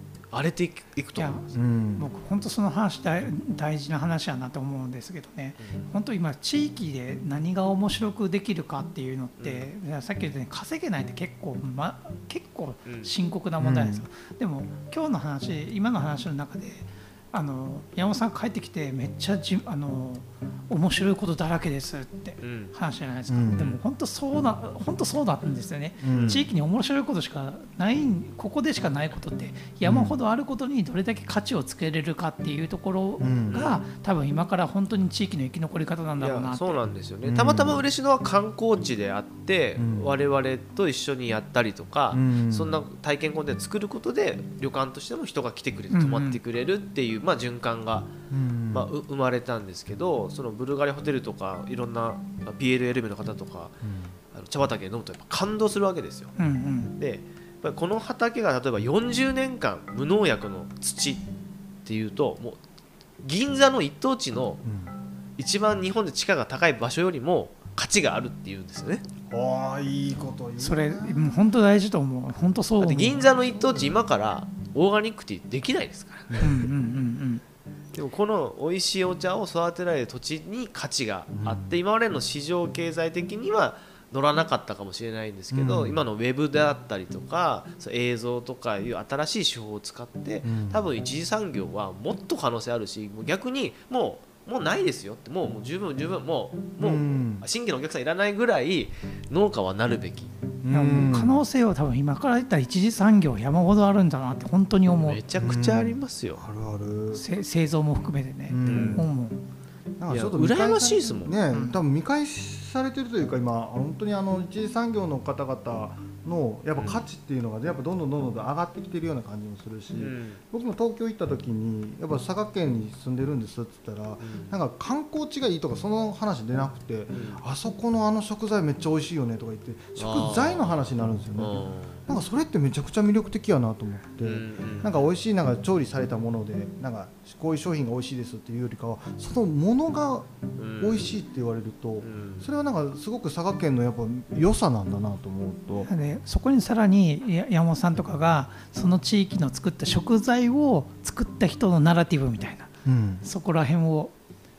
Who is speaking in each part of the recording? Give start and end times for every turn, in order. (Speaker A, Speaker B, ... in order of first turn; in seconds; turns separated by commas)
Speaker A: 0.3-1.5, Speaker B: 1.2-1.4, Speaker C: 1.5-2.1, Speaker B: 2.0-36.8, Speaker A: 9.4-9.7, Speaker A: 12.9-13.1, Speaker C: 13.6-14.1, Speaker A: 22.4-22.7, Speaker C: 23.3-23.8, Speaker C: 26.0-26.5, Speaker A: 26.1-26.5, Speaker C: 29.8-30.2, Speaker C: 33.2-33.6, Speaker A: 33.5-33.8, Speaker A: 36.2-48.1, Speaker C: 37.2-37.8, Speaker C: 39.8-40.1, Speaker C: 42.1-42.8, Speaker B: 45.9-46.4, Speaker C: 48.3-48.9, Speaker A: 48.7-53.8, Speaker C: 53.8-54.1, Speaker A: 54.3-56.4, Speaker B: 56.4-56.9, Speaker A: 57.0-61.2, Speaker A: 61.9-62.6, Speaker A: 63.2-64.6, Speaker C: 64.6-64.9, Speaker A: 65.4-69.0, Speaker C: 69.3-71.5, Speaker B: 70.6-73.2, Speaker A: 72.8-76.4, Speaker C: 73.3-74.0, Speaker C: 76.3-76.7, Speaker B: 76.4-77.4, Speaker A: 77.9-100.3, Speaker C: 81.3-81.8, Speaker C: 85.5-86.0, Speaker C: 90.4-90.8, Speaker C: 96.8-97.4, Speaker C: 100.6-101.4, Speaker B: 100.7-105.2, Speaker A: 105.0-106.4, Speaker C: 105.4-107.2, Speaker B: 107.1-109.4, Speaker C: 108.5-109.1, Speaker A: 108.7-109.0, Speaker C: 110.0-145.9, Speaker A: 110.1-111.4, Speaker B: 111.5-111.8, Speaker A: 116.8-117.0, Speaker A: 120.0-120.4, Speaker A: 124.2-124.5, Speaker A: 127.1-127.4, Speaker A: 130.0-130.8, Speaker A: 131.3-132.0, Speaker A: 134.2-135.0, Speaker A: 140.6-141.2, Speaker A: 142.0-142.5, Speaker B: 145.9-152.7, Speaker C: 152.8-153.2, Speaker B: 153.2-154.1